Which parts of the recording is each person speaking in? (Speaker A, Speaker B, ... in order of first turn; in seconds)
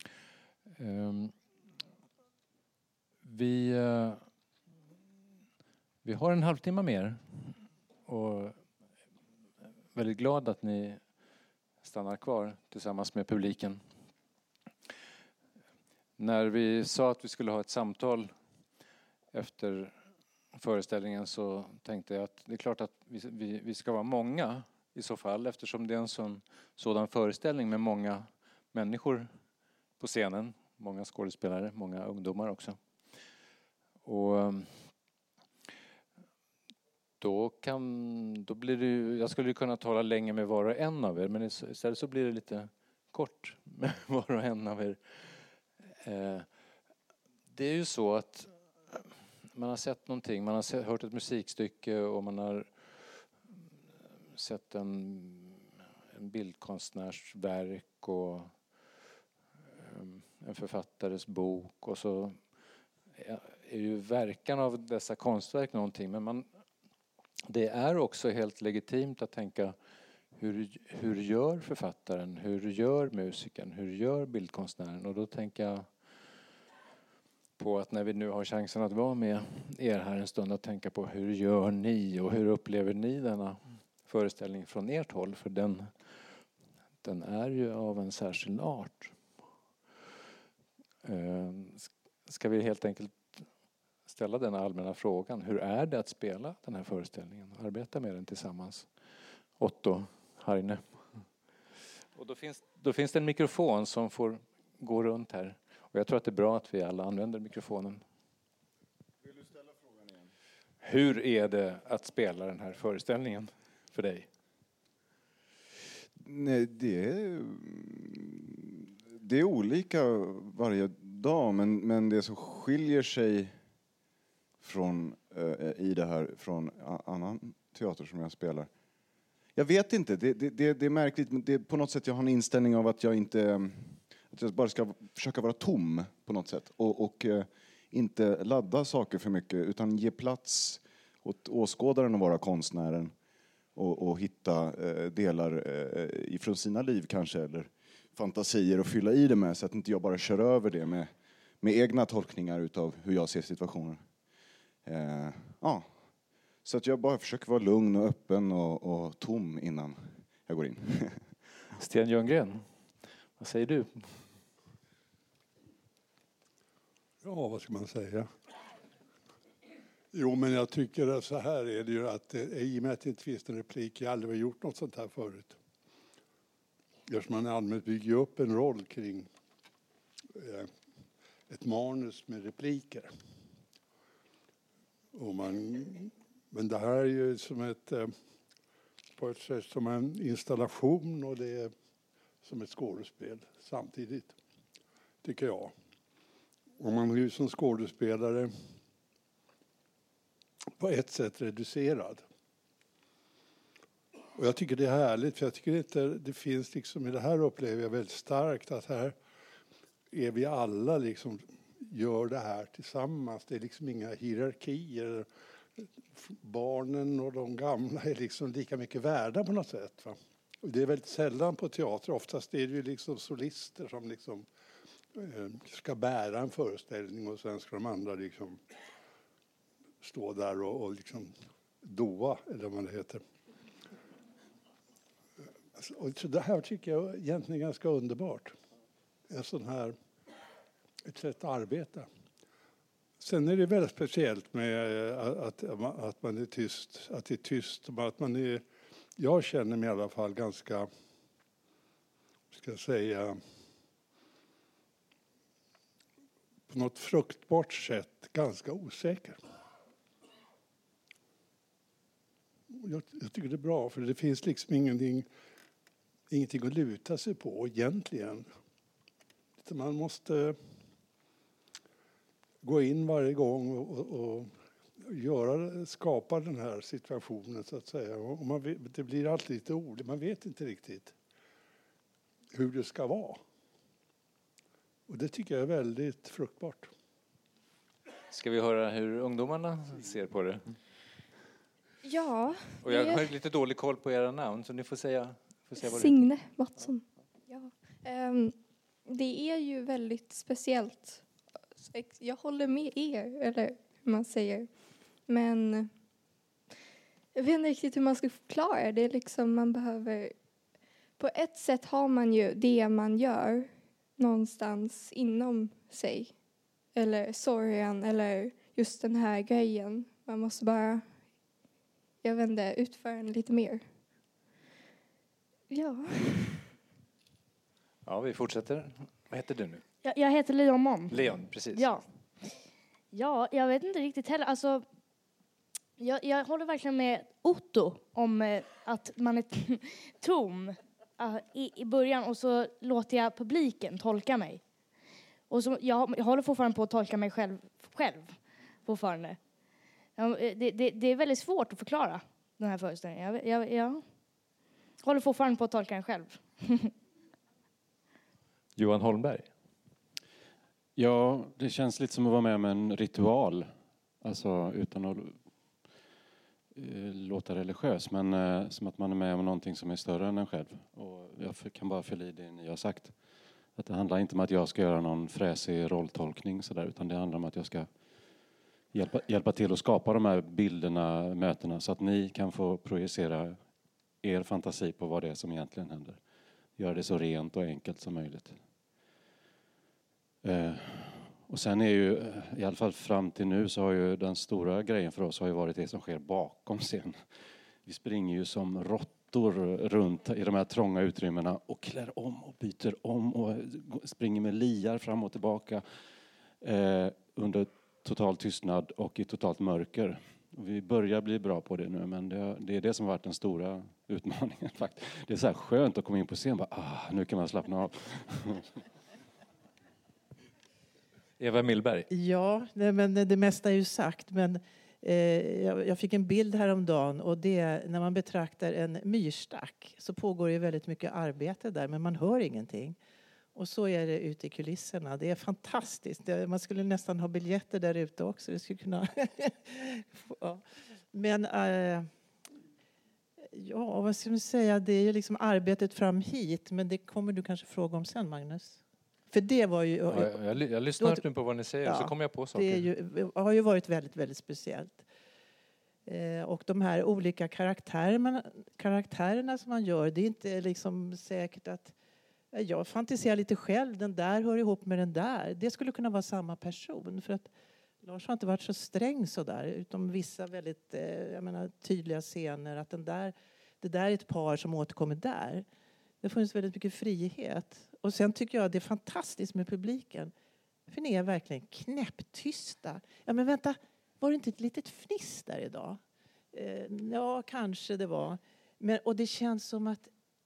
Speaker A: 0.8-1.4, 3.2-4.3, 6.0-8.7, 9.9-11.0, 11.8-13.8, 16.2-18.3, 19.3-20.0, 20.6-29.3, 30.0-32.8, 34.0-34.9, 37.2-45.5, 46.0-46.5, 47.5-53.3, 54.3-58.9, 59.8-62.5, 63.1-66.5, 67.5-69.8, 70.3-75.9, 77.6-86.2, 87.0-89.3, 91.0-93.5, 94.1-98.9, 99.6-101.2, 102.2-108.0, 110.8-114.3, 161.8-164.3, 288.3-290.8, 292.8-296.9, 328.1-329.9, 331.1-332.0, 358.8-359.5, 421.4-422.1, 450.1-452.9
Speaker B: 116.2-123.6, 124.6-128.7, 129.6-143.1, 143.8-154.0, 154.8-156.1, 156.6-161.3
Speaker C: 167.2-168.3, 170.1-175.6, 177.1-179.3, 180.3-180.7, 181.5-183.1, 185.1-188.1, 189.2-191.7, 192.4-194.3, 195.2-195.7, 196.8-198.5, 200.8-202.2, 204.3-209.2, 210.1-215.3, 215.8-224.5, 225.2-228.6, 230.0-233.2, 235.8-238.6, 239.3-240.0, 241.1-242.1, 243.2-248.6, 249.2-250.9, 252.5-253.4, 256.7-259.4, 262.7-265.3, 266.3-268.5, 269.6-270.6, 272.6-281.1, 282.5-283.4, 285.1-286.9
Speaker D: 292.0-293.3, 295.9-305.9, 307.4-310.4, 311.2-316.4, 316.9-321.2, 322.2-323.9, 325.7-326.6
Speaker E: 330.0-332.4, 333.1-334.9, 336.0-344.6, 345.5-349.4, 350.2-354.3, 355.0-356.9
Speaker F: 361.0-363.7, 364.2-365.4, 366.8-373.2, 373.7-377.9, 378.9-383.6, 384.2-386.2, 386.8-388.6, 390.4-406.0, 406.6-418.7
Speaker G: 422.1-433.0, 433.6-442.1, 443.5-450.4, 451.0-451.2, 451.8-455.1, 456.1-461.9, 462.5-467.5, 468.0-475.7, 476.2-480.3, 480.9-486.0, 486.5-490.1